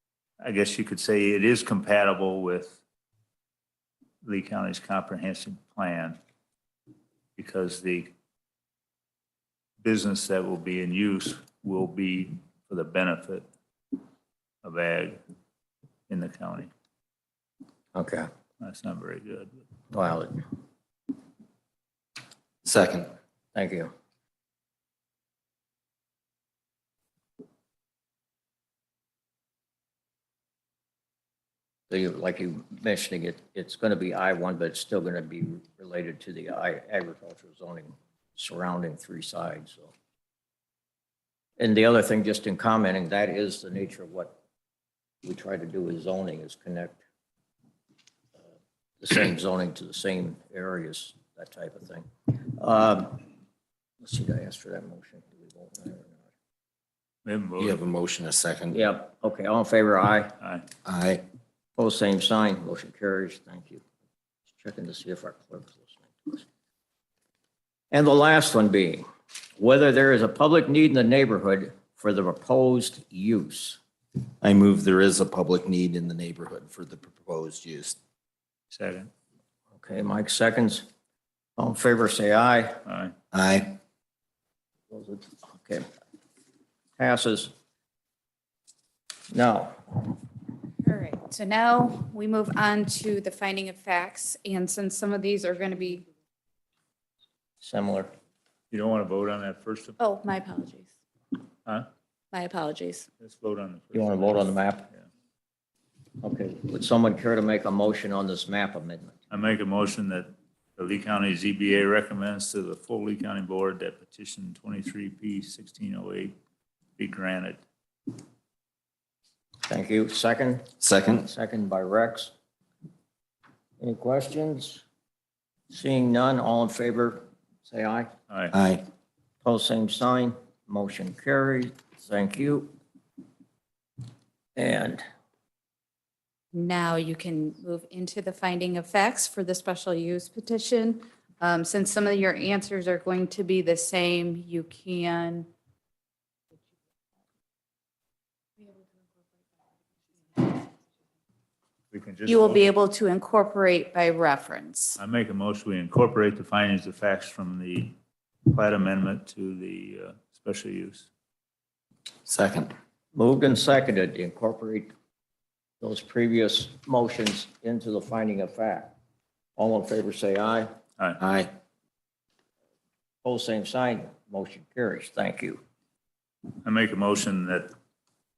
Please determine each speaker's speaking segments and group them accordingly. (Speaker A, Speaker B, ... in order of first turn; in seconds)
Speaker A: 0.4-2.8, 4.2-6.2, 7.4-8.1, 9.8-13.5, 14.6-15.2, 16.1-16.7, 18.6-19.6, 57.2-57.8, 60.4-60.7, 78.7-79.1, 82.9-83.1, 98.7-100.0, 103.2-105.0, 109.3-116.4, 117.0-117.6, 151.9-152.6, 155.0-157.9, 158.5-161.1, 176.6-177.7
Speaker B: 17.9-18.3, 19.9-20.4, 23.6-23.9, 31.9-39.9, 41.6-44.4, 45.2-47.0, 49.0-53.3, 54.0-56.2, 58.7-60.4, 61.8-63.8, 64.6-66.5, 67.9-69.1, 69.6-73.8, 79.8-80.9, 81.6-82.8, 84.9-85.8, 87.0-87.5, 89.3-90.2, 97.6-98.1, 103.9-104.9, 106.2-109.2, 119.7-122.3, 123.8-124.8, 125.7-128.1, 129.4-132.7, 134.6-135.0, 163.1-164.9, 165.8-169.0, 169.6-170.7, 173.2-175.6
Speaker C: 22.6-23.1, 57.6-58.8, 60.9-61.2, 74.4-78.0, 83.3-83.8, 120.8-121.3, 128.5-128.8, 162.3-162.7, 171.2-171.5
Speaker D: 90.8-96.1, 100.0-100.9, 102.3-103.1, 136.5-145.5, 152.3-155.0